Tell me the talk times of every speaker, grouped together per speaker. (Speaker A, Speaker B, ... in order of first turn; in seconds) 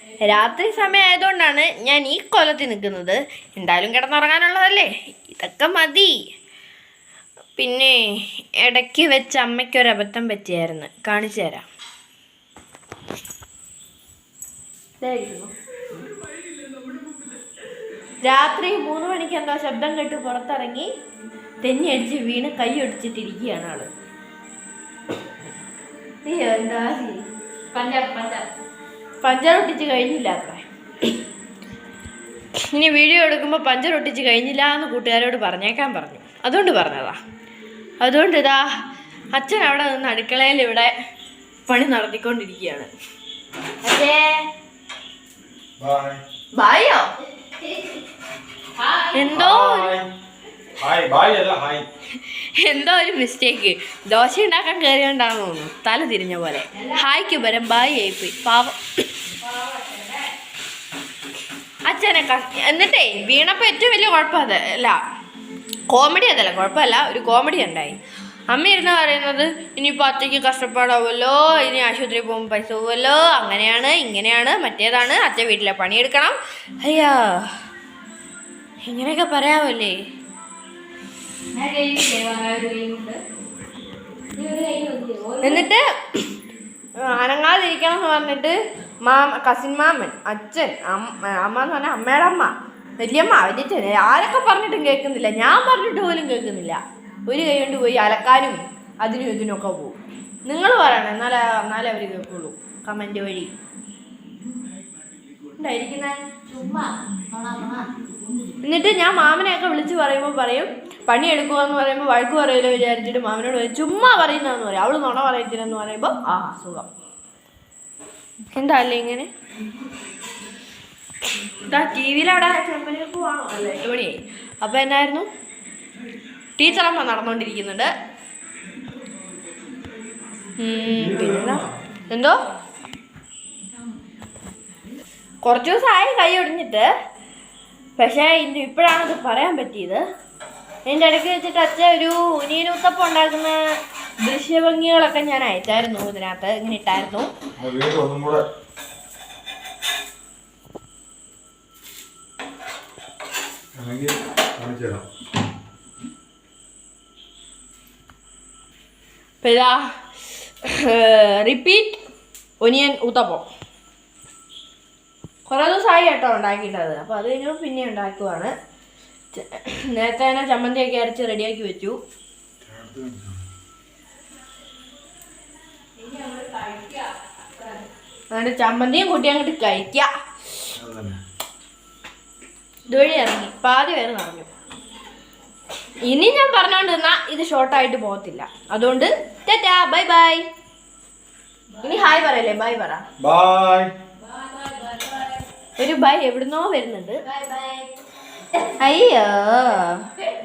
Speaker A: 0.2-6.2, 7.6-11.6, 15.0-15.5, 18.2-20.9, 21.6-23.9, 26.2-27.3, 29.2-31.1, 32.6-37.2, 38.0-38.7, 39.3-40.9, 41.7-42.9, 43.8-44.4, 46.5-47.1, 49.1-50.0, 52.1-58.8, 61.9-65.0, 65.9-68.0, 68.5-77.5, 78.8-80.0, 85.4-86.3, 87.0-103.5, 105.6-106.2, 108.6-116.9, 118.5-119.3, 121.4-125.3, 126.6-127.9, 130.6-132.4, 135.4-136.9, 138.0-140.0, 140.9-143.6, 144.2-147.3, 159.4-159.8, 160.6-162.0, 162.6-163.4, 165.5-168.5, 169.3-172.0, 178.3-180.1, 182.9-184.5, 186.0-190.5, 191.8-193.0, 195.8-197.2, 198.6-200.1
Speaker B: 27.7-28.5, 48.8-49.1, 59.4-60.2, 81.5-83.2, 84.3-85.7, 106.5-107.9, 176.0-177.9, 194.3-195.4, 197.3-197.9
Speaker C: 45.8-46.2, 49.3-50.1, 50.8-51.9, 130.9-131.8, 147.6-148.4, 153.8-155.1, 172.6-173.4, 180.8-181.2, 193.2-193.9